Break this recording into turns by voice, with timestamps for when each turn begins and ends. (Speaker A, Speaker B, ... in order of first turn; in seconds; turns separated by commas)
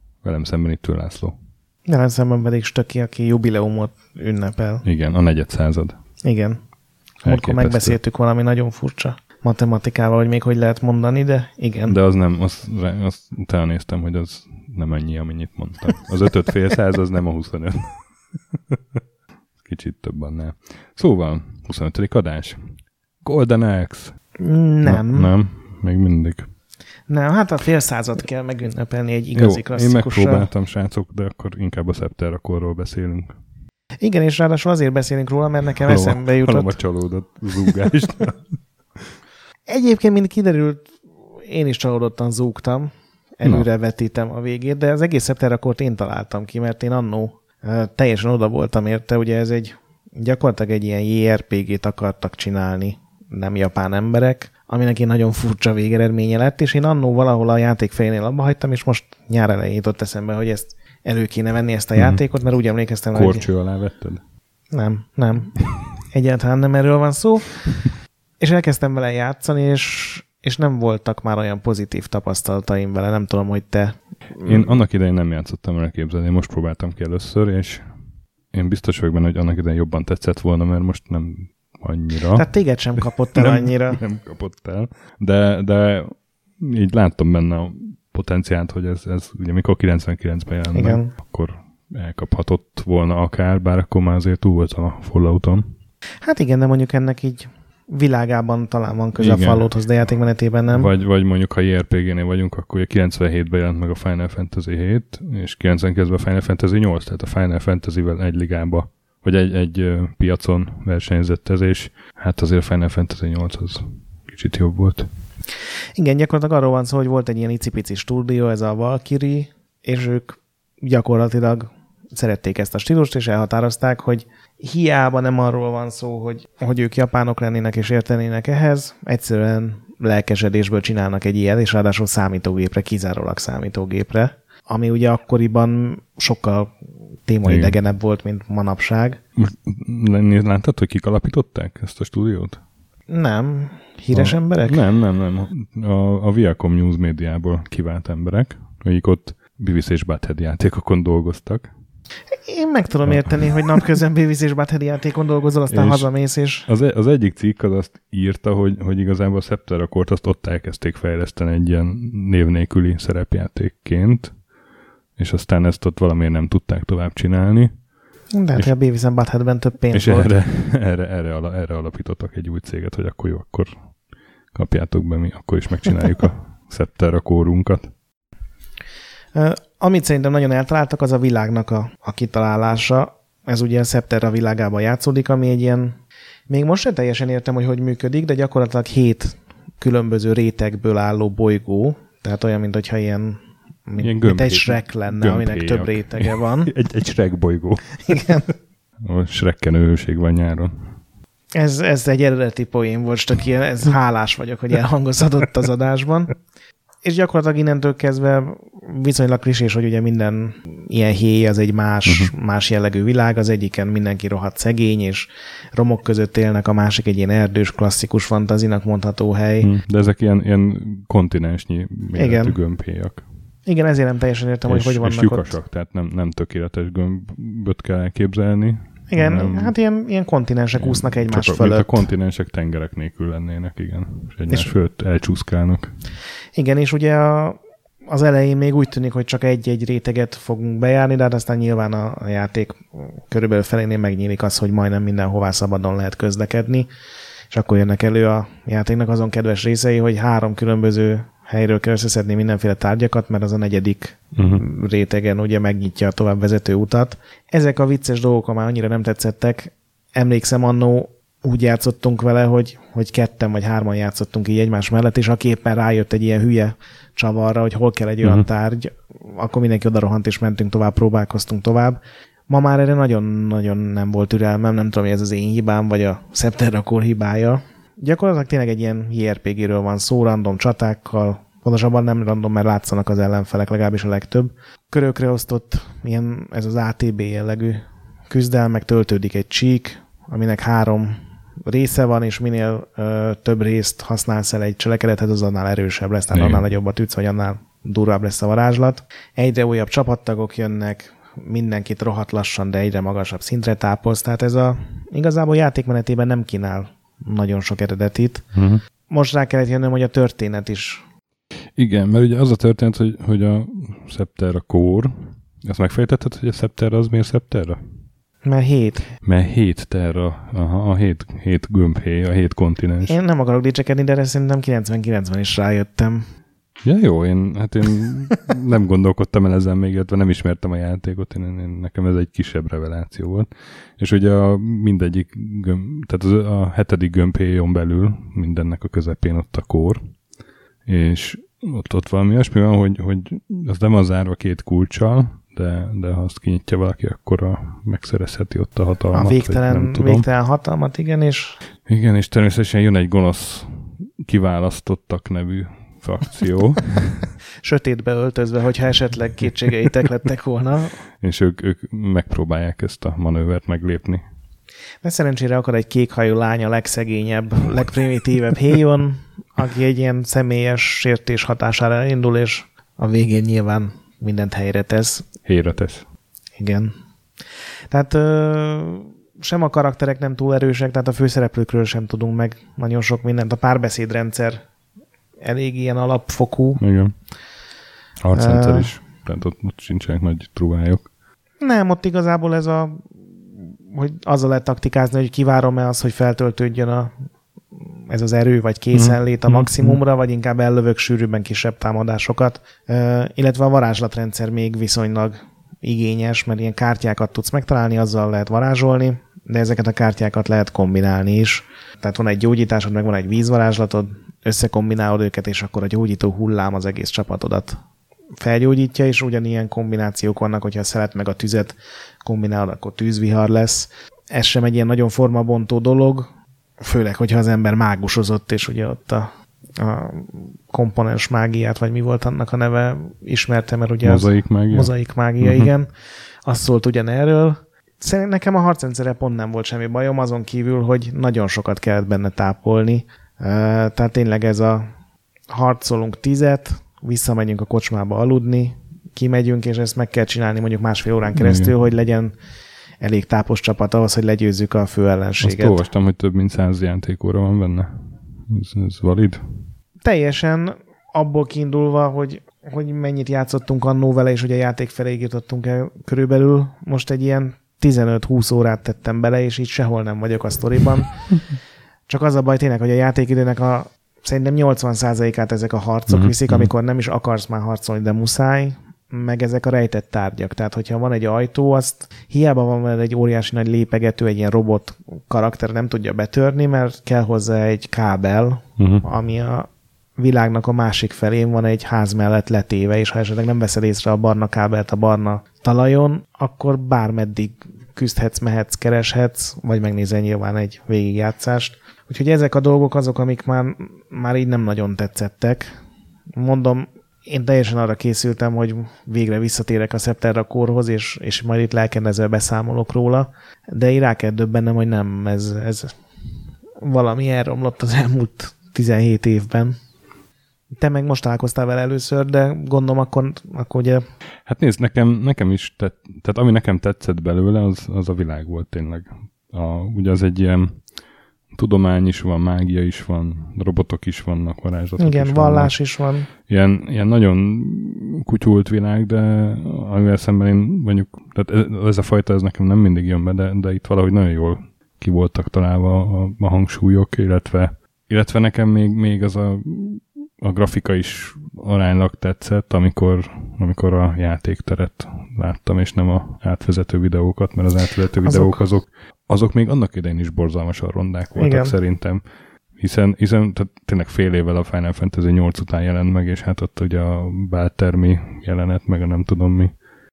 Speaker A: 0.2-1.4, Speaker B: 1.9-4.8, Speaker A: 4.8-6.0, Speaker B: 6.2-6.6, Speaker B: 7.2-12.0, Speaker A: 7.2-8.0, Speaker A: 11.9-17.9, Speaker A: 19.6-24.1, Speaker B: 24.4-25.3, Speaker A: 24.8-26.5, Speaker B: 27.1-30.5, Speaker A: 29.4-33.4, Speaker B: 34.0-36.8, Speaker A: 35.8-38.4, Speaker B: 39.7-63.5, Speaker A: 62.0-62.2, Speaker A: 63.1-64.2, Speaker B: 64.7-65.6, Speaker B: 66.1-67.7, Speaker B: 68.4-74.7, Speaker A: 74.5-77.9, Speaker A: 78.5-82.5, Speaker B: 82.3-84.0, Speaker A: 83.3-95.7, Speaker B: 90.7-91.1, Speaker B: 96.2-100.9, Speaker A: 99.2-99.7, Speaker A: 100.7-115.1, Speaker B: 116.0-136.7, Speaker B: 137.3-139.2, Speaker A: 137.4-137.8, Speaker A: 139.4-142.6, Speaker B: 143.1-144.8, Speaker A: 144.1-151.7, Speaker B: 152.3-156.7, Speaker A: 153.1-153.6, Speaker A: 155.7-156.1, Speaker A: 156.7-164.3, Speaker A: 165.2-167.7, Speaker B: 168.3-170.3, Speaker A: 169.9-173.8, Speaker A: 174.5-177.9, Speaker B: 179.3-196.7, Speaker A: 194.0-198.2, Speaker B: 198.1-198.5, Speaker A: 199.0-200.9, Speaker B: 201.6-206.3, Speaker B: 207.0-219.7, Speaker A: 212.1-212.3, Speaker A: 219.6-223.2, Speaker B: 222.2-222.6, Speaker B: 223.7-225.6, Speaker A: 224.7-229.8, Speaker B: 229.1-232.1, Speaker A: 230.8-235.9, Speaker B: 236.6-246.9, Speaker B: 247.5-308.5, Speaker A: 254.4-254.6, Speaker A: 296.3-296.6, Speaker A: 308.5-308.8, Speaker B: 309.1-311.0, Speaker A: 311.8-315.1, Speaker A: 315.6-317.8, Speaker B: 318.4-319.1, Speaker A: 319.2-323.1, Speaker B: 323.1-326.3, Speaker A: 326.8-340.0, Speaker A: 340.9-350.3, Speaker B: 349.1-351.6, Speaker A: 351.9-357.3, Speaker B: 357.6-361.0, Speaker A: 361.2-364.2, Speaker B: 365.0-375.3, Speaker A: 375.5-376.1, Speaker B: 376.6-376.9, Speaker B: 377.9-384.6, Speaker B: 385.4-386.8, Speaker A: 386.8-387.1, Speaker A: 388.2-391.1, Speaker B: 388.3-388.9, Speaker B: 391.6-397.1, Speaker B: 398.1-417.8, Speaker A: 398.9-400.0, Speaker B: 418.4-426.3, Speaker B: 426.8-435.9, Speaker A: 434.0-435.7, Speaker B: 436.4-444.9, Speaker B: 445.5-452.3, Speaker A: 451.3-451.7, Speaker B: 453.0-455.8, Speaker A: 455.4-459.4, Speaker B: 460.0-471.2, Speaker B: 472.1-505.7, Speaker A: 476.1-476.7, Speaker A: 488.8-489.1, Speaker B: 506.4-516.0, Speaker B: 516.8-519.8, Speaker B: 520.8-524.0, Speaker A: 524.5-530.8, Speaker A: 531.5-535.8, Speaker B: 535.0-536.3, Speaker A: 536.5-562.2, Speaker B: 558.2-558.6, Speaker B: 561.4-561.8, Speaker A: 562.8-569.7